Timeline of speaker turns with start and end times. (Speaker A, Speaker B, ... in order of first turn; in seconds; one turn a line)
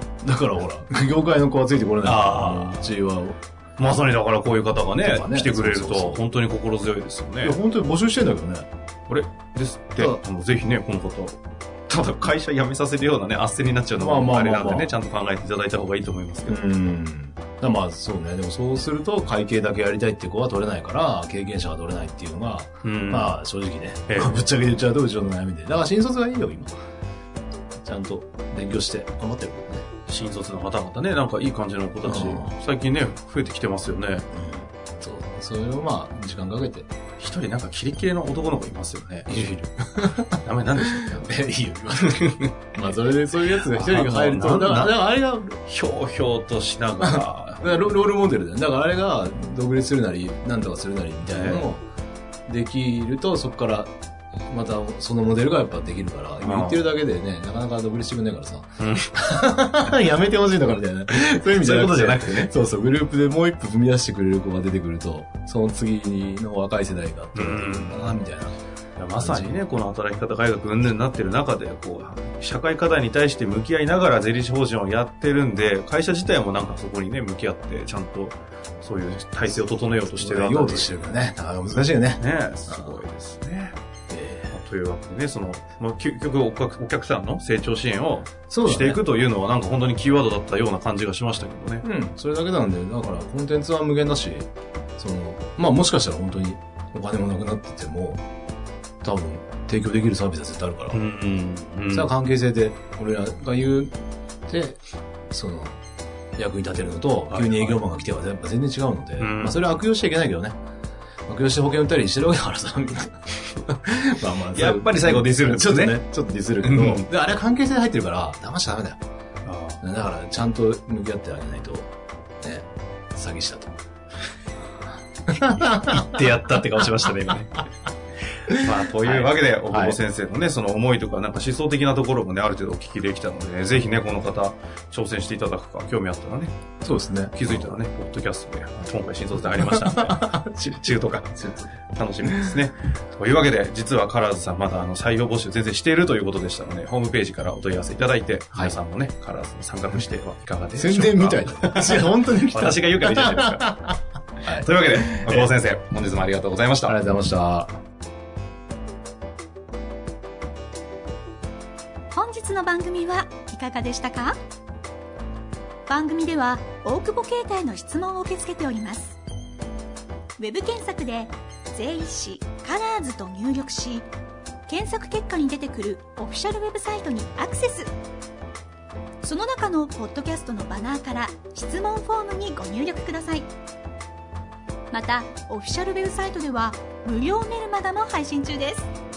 Speaker A: 0.2-3.4
Speaker B: 2.0-2.9
Speaker B: 3.8-7.6
Speaker A: 5.0-6.2
Speaker A: 7.4-8.7
Speaker B: 9.1-16.6
Speaker A: 13.9-14.9
Speaker A: 16.5-26.7
Speaker B: 22.8-23.4
Speaker B: 24.1-24.4
Speaker A: 27.8-29.9
Speaker B: 30.1-34.2
Speaker A: 32.0-32.5
Speaker A: 34.3-36.9
Speaker B: 37.2-39.3
Speaker A: 39.3-42.2
Speaker B: 40.3-41.3
Speaker B: 41.9-42.5
Speaker A: 42.7-45.6
Speaker B: 43.7-45.1
Speaker B: 45.6-47.9
Speaker A: 47.0-51.8
Speaker B: 51.3-51.7
Speaker A: 52.5-53.9
Speaker A: 54.5-68.5
Speaker B: 56.4-56.9
Speaker B: 58.8-59.1
Speaker B: 61.6-62.5
Speaker B: 67.3-68.2
Speaker B: 69.0-80.9
Speaker A: 69.2-69.6
Speaker A: 79.8-83.0
Speaker B: 82.2-83.7
Speaker A: 84.1-84.5
Speaker B: 84.5-91.8
Speaker A: 88.5-89.0
Speaker A: 91.8-98.2
Speaker A: 99.0-101.0
Speaker B: 100.9-102.1
Speaker A: 101.9-104.0
Speaker A: 104.5-105.8
Speaker A: 106.4-110.5
Speaker B: 107.3-107.8
Speaker B: 109.2-109.6
Speaker A: 111.3-119.0
Speaker B: 114.5-116.0
Speaker B: 116.6-117.1
Speaker B: 119.5-119.8
Speaker A: 119.8-123.8
Speaker A: 125.3-126.1
Speaker B: 125.5-127.6
Speaker A: 128.5-130.0
Speaker B: 128.5-136.6
Speaker A: 136.8-137.8
Speaker B: 137.3-153.7
Speaker A: 139.4-142.6
Speaker A: 150.7-155.5
Speaker B: 154.5-156.9
Speaker A: 156.8-157.7
Speaker C: 162.1-164.4
Speaker C: 165.9-169.2
Speaker C: 170.4-174.1
Speaker C: 174.7-177.9
Speaker C: 179.2-183.5
Speaker C: 184.9-188.9